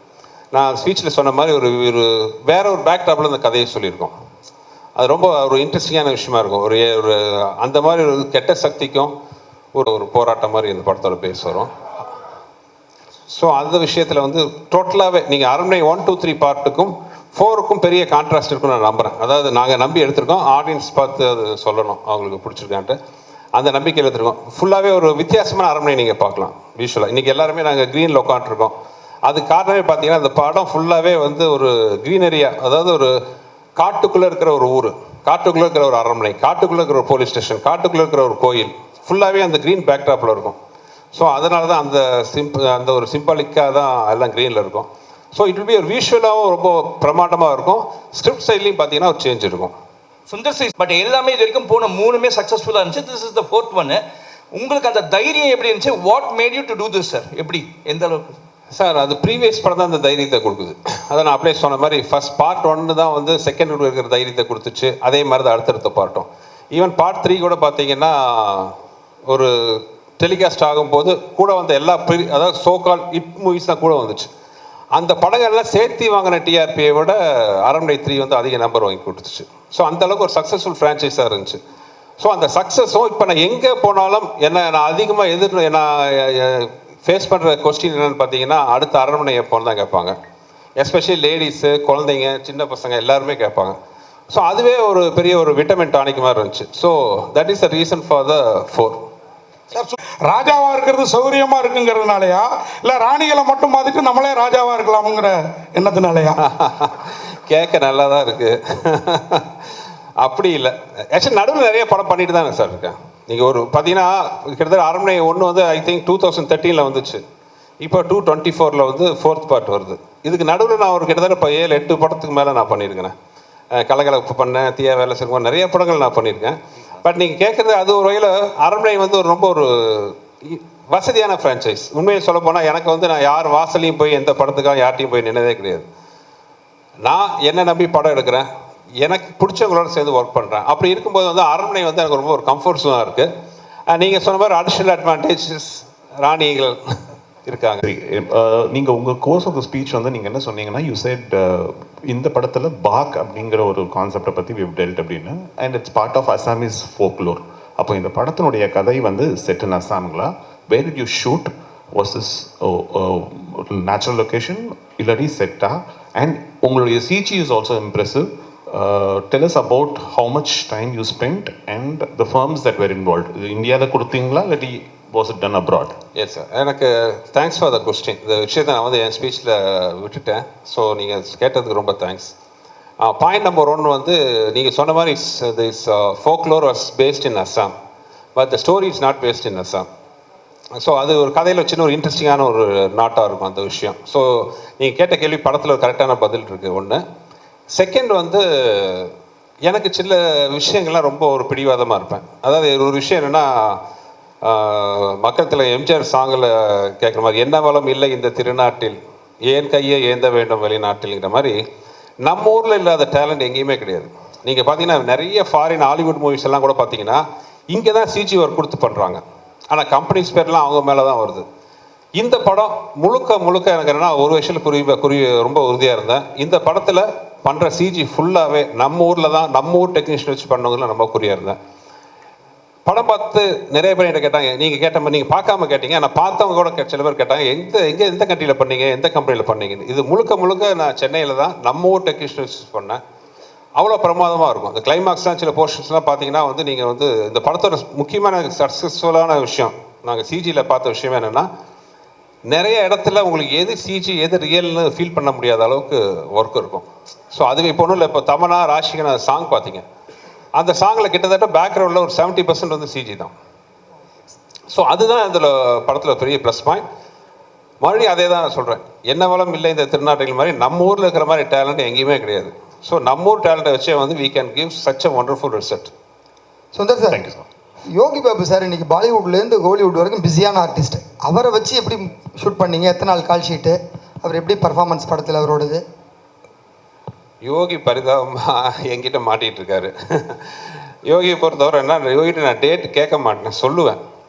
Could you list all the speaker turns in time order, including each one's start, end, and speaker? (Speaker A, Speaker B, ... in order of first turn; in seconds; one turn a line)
Speaker A: 0.5-4.1
Speaker A: 5.0-9.1
Speaker A: 9.8-11.7
Speaker A: 13.3-23.0
Speaker A: 23.6-28.7
Speaker A: 29.2-33.1
Speaker A: 33.8-40.6
Speaker A: 41.1-49.7
Speaker B: 50.3-58.3
Speaker A: 58.7-68.7
Speaker A: 69.3-74.3
Speaker A: 74.9-81.6
Speaker A: 82.2-90.2
Speaker A: 90.8-93.8
Speaker A: 94.3-99.0
Speaker C: 99.8-106.4
Speaker A: 106.5-109.4
Speaker A: 110.2-117.2
Speaker A: 117.8-123.1
Speaker A: 123.8-135.9
Speaker A: 137.0-138.5
Speaker A: 139.1-143.3
Speaker A: 143.9-146.8
Speaker A: 147.5-147.8
Speaker D: 147.8-176.0
Speaker A: 176.2-182.3
Speaker A: 183.0-187.7
Speaker A: 188.4-189.9
Speaker A: 190.8-197.0
Speaker A: 197.7-199.1
Speaker A: 199.6-203.8
Speaker A: 204.4-209.0
Speaker A: 209.5-211.6
Speaker A: 212.2-221.4
Speaker A: 222.2-231.6
Speaker A: 232.9-243.0
Speaker A: 243.8-251.5
Speaker A: 252.5-259.8
Speaker A: 260.6-263.3
Speaker A: 264.7-266.8
Speaker A: 267.8-275.9
Speaker E: 276.7-277.2
Speaker D: 277.1-277.5
Speaker E: 277.9-285.8
Speaker A: 287.4-290.4
Speaker A: 291.1-294.0